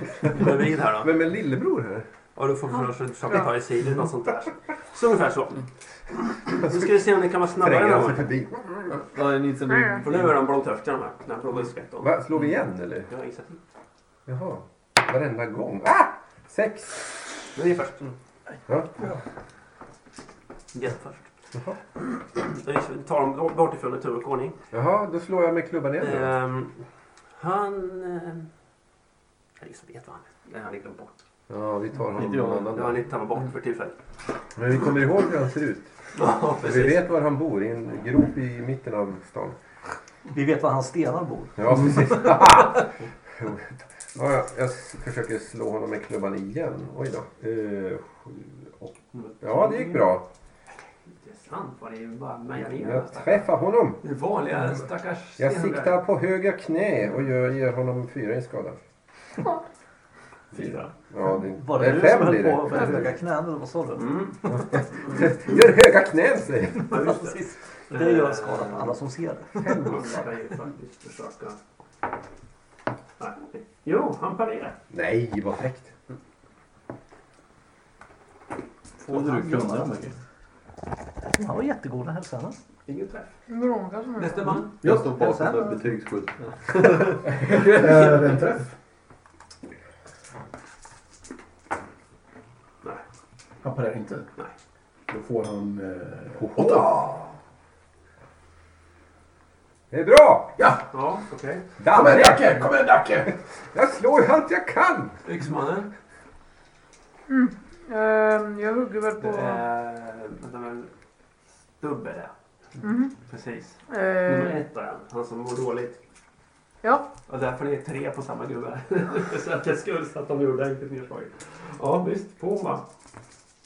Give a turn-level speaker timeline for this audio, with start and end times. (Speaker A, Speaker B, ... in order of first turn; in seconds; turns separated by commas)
Speaker A: 0.3-1.1, Speaker B: 1.0-2.1, Speaker A: 2.4-8.3, Speaker B: 7.5-9.0, Speaker C: 9.0-10.3, Speaker D: 9.7-10.1, Speaker A: 10.0-12.2, Speaker B: 12.0-13.1, Speaker A: 13.1-13.6, Speaker B: 14.2-17.1, Speaker A: 17.5-18.1, Speaker A: 20.7-21.3, Speaker A: 22.0-24.6, Speaker B: 24.7-26.3, Speaker A: 26.0-26.8, Speaker A: 27.3-28.5, Speaker A: 29.6-31.1, Speaker B: 31.5-33.0, Speaker C: 32.2-32.7, Speaker A: 32.7-34.0, Speaker B: 34.5-36.0, Speaker A: 36.1-37.0, Speaker B: 36.6-39.5, Speaker E: 40.3-42.3, Speaker B: 41.6-50.3, Speaker A: 49.1-50.1, Speaker A: 51.0-53.5, Speaker B: 52.6-54.0, Speaker A: 54.0-56.0, Speaker B: 55.4-58.8, Speaker A: 60.5-60.9, Speaker B: 60.5-62.8, Speaker E: 61.4-64.3, Speaker A: 64.0-64.6, Speaker B: 64.7-67.0, Speaker A: 66.9-69.0, Speaker E: 66.9-69.9, Speaker A: 69.6-71.6, Speaker B: 69.6-70.1, Speaker A: 73.2-74.8, Speaker B: 74.9-75.9, Speaker E: 79.0-80.0, Speaker C: 79.0-80.2, Speaker E: 81.2-82.6, Speaker A: 82.9-83.4, Speaker D: 83.5-84.6, Speaker A: 84.2-84.7, Speaker C: 84.8-87.2, Speaker E: 84.8-85.8, Speaker F: 87.5-88.7, Speaker F: 93.6-94.3, Speaker F: 95.1-97.2, Speaker B: 99.9-100.6, Speaker F: 100.6-100.9, Speaker A: 100.9-101.6, Speaker B: 101.8-105.2, Speaker F: 101.8-103.4, Speaker A: 105.2-105.9, Speaker D: 107.3-109.6, Speaker A: 109.2-110.9, Speaker A: 111.8-112.3, Speaker D: 112.8-113.1, Speaker A: 113.2-116.0, Speaker D: 113.9-114.6, Speaker D: 116.8-117.1, Speaker A: 117.3-122.8